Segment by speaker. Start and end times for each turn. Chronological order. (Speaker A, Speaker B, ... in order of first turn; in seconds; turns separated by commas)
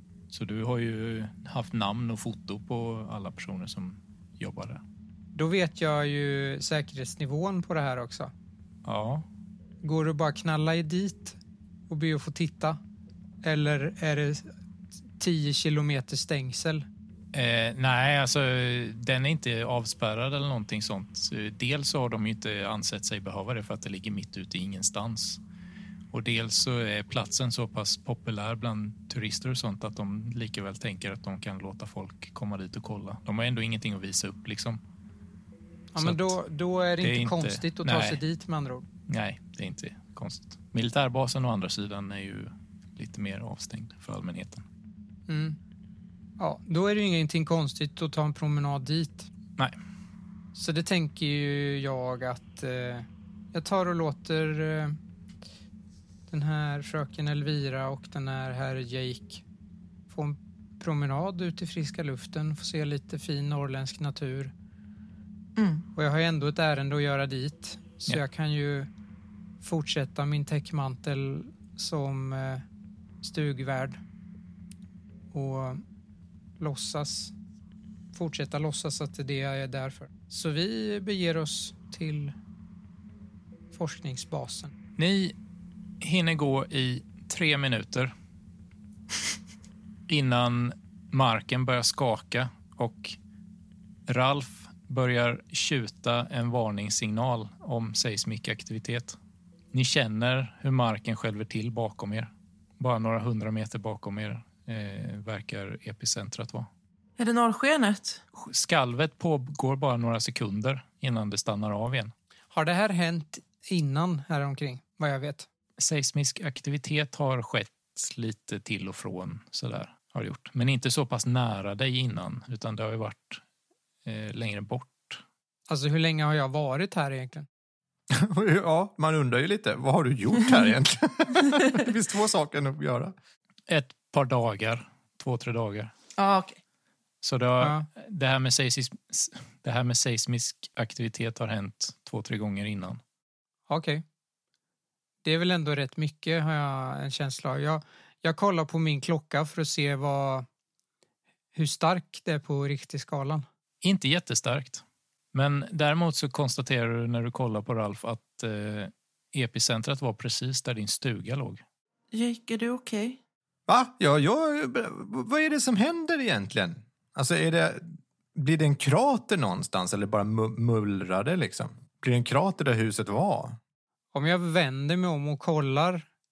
Speaker A: 0.3-4.8, Speaker B: 5.3-8.3, Speaker A: 8.8-9.3, Speaker B: 9.8-11.4, Speaker B: 11.9-12.8, Speaker B: 13.4-14.5, Speaker B: 15.2-16.9, Speaker A: 17.3-25.4, Speaker A: 26.1-34.8, Speaker B: 35.9-38.9, Speaker A: 36.0-36.4, Speaker A: 37.0-38.2, Speaker A: 39.1-44.6, Speaker B: 45.3-45.6, Speaker B: 46.4-49.3, Speaker B: 50.5-55.0, Speaker B: 56.3-59.4, Speaker B: 60.1-64.5, Speaker C: 65.6-65.9, Speaker B: 66.0-68.9, Speaker B: 69.6-72.6, Speaker B: 73.2-74.0, Speaker B: 75.3-75.8, Speaker B: 76.6-77.3, Speaker B: 78.1-82.3, Speaker B: 83.7-84.7, Speaker A: 85.0-85.3, Speaker A: 86.0-88.1, Speaker A: 90.1-93.2, Speaker A: 94.1-99.2, Speaker A: 99.7-106.7, Speaker C: 107.2-108.2, Speaker A: 108.3-112.1, Speaker B: 112.5-115.5, Speaker A: 115.8-123.4, Speaker A: 124.0-125.2, Speaker B: 125.7-127.5, Speaker D: 128.1-133.1, Speaker A: 133.7-135.9, Speaker C: 136.2-136.6, Speaker A: 137.2-143.0, Speaker B: 137.6-137.9, Speaker B: 143.7-144.0, Speaker B: 145.2-150.5, Speaker B: 151.5-153.4, Speaker A: 153.8-161.6, Speaker C: 162.1-163.2, Speaker D: 163.7-173.6, Speaker B: 174.1-176.1